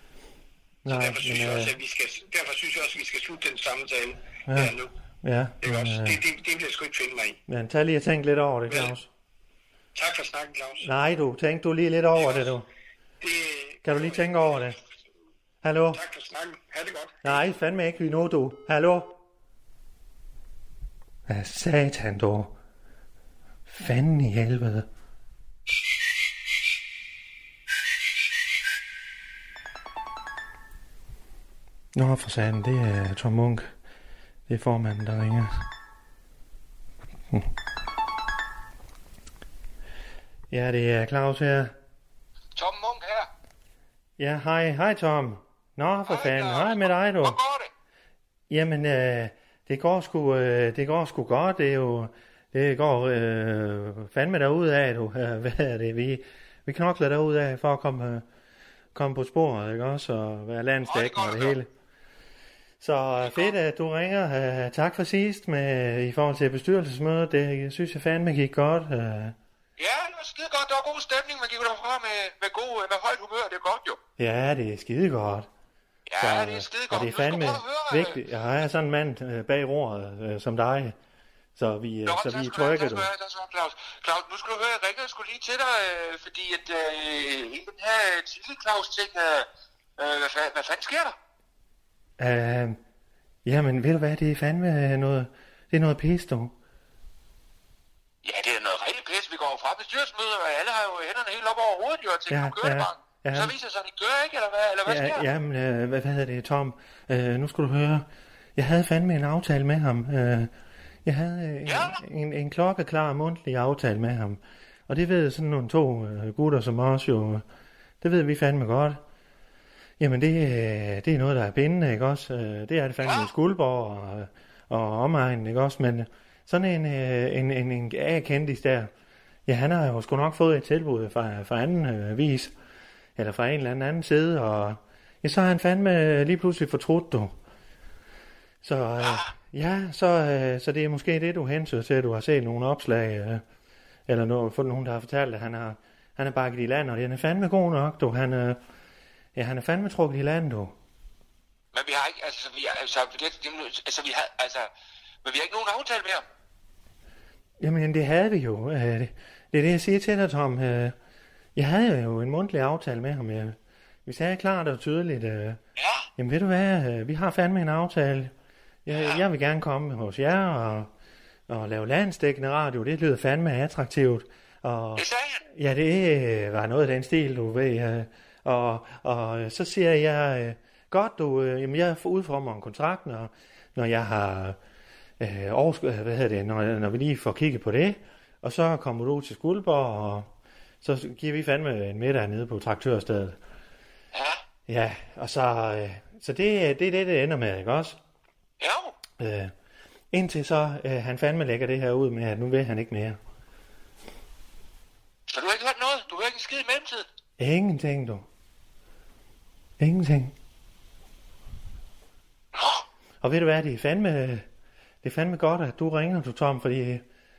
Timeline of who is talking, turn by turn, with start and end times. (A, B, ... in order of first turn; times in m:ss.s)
0:00.8-0:01.8 A
0:00.9-0:04.9 B
0:04.5-0:06.2 A
0:05.6-0:07.4 B
0:07.5-0:09.1 A
0:08.7-0:08.9 B
0:10.0-0:10.9 B
0:10.8-0:12.7 A
0:12.2-0:12.5 B
0:13.2-0:14.2 B
0:13.8-0:14.8 A
0:15.6-0:16.0 A
0:15.9-0:17.4 B
0:17.2-0:19.2 A
0:21.3-0:22.6 A
0:23.7-0:24.9 A
0:32.0-0:33.7 A
0:34.5-0:35.6 A
0:40.5-0:41.7 A
0:42.6-0:43.3 C
0:44.2-0:47.4 A
0:46.1-0:47.7 C
0:48.5-0:58.2 A
0:58.9-1:01.7 A
1:00.9-1:01.6 C
1:02.8-1:09.4 A
1:03.2-1:03.5 C
1:09.8-1:14.0 C
1:14.2-1:15.5 A
1:16.1-1:18.2 C
1:16.2-1:21.0 A
1:21.6-1:23.1 A
1:22.1-1:29.5 C
1:30.0-1:31.2 C
1:32.2-1:32.8 A
1:33.4-1:36.5 A
1:38.2-1:45.2 C
1:42.3-1:43.5 A
1:44.8-1:50.5 A
1:51.0-1:57.4 A
1:51.7-1:52.0 C
1:58.0-1:59.0 A
2:00.0-2:08.9 A
2:09.5-2:12.5 A
2:13.2-2:17.3 A
2:18.6-2:23.4 A
2:24.1-2:28.6 A
2:29.4-2:30.8 A
2:31.7-2:34.7 C
2:35.2-2:36.2 C
2:37.6-2:41.0 A
2:41.6-2:45.6 A
2:45.8-2:46.1 C
2:46.2-2:48.3 A
2:48.9-2:50.9 A
2:48.9-2:49.2 C
2:51.5-3:04.6 A
2:55.0-2:55.4 C
3:05.2-3:10.3 A
3:10.8-3:13.4 A
3:14.1-3:14.4 C
3:14.7-3:18.0 A
3:18.6-3:19.0 C
3:19.2-3:19.5 A
3:20.1-3:23.2 A
3:25.3-3:27.1 C
3:27.4-3:28.3 A
3:29.8-3:30.4 A
3:32.5-3:32.8 C
3:33.2-3:34.5 A
3:35.0-3:37.0 A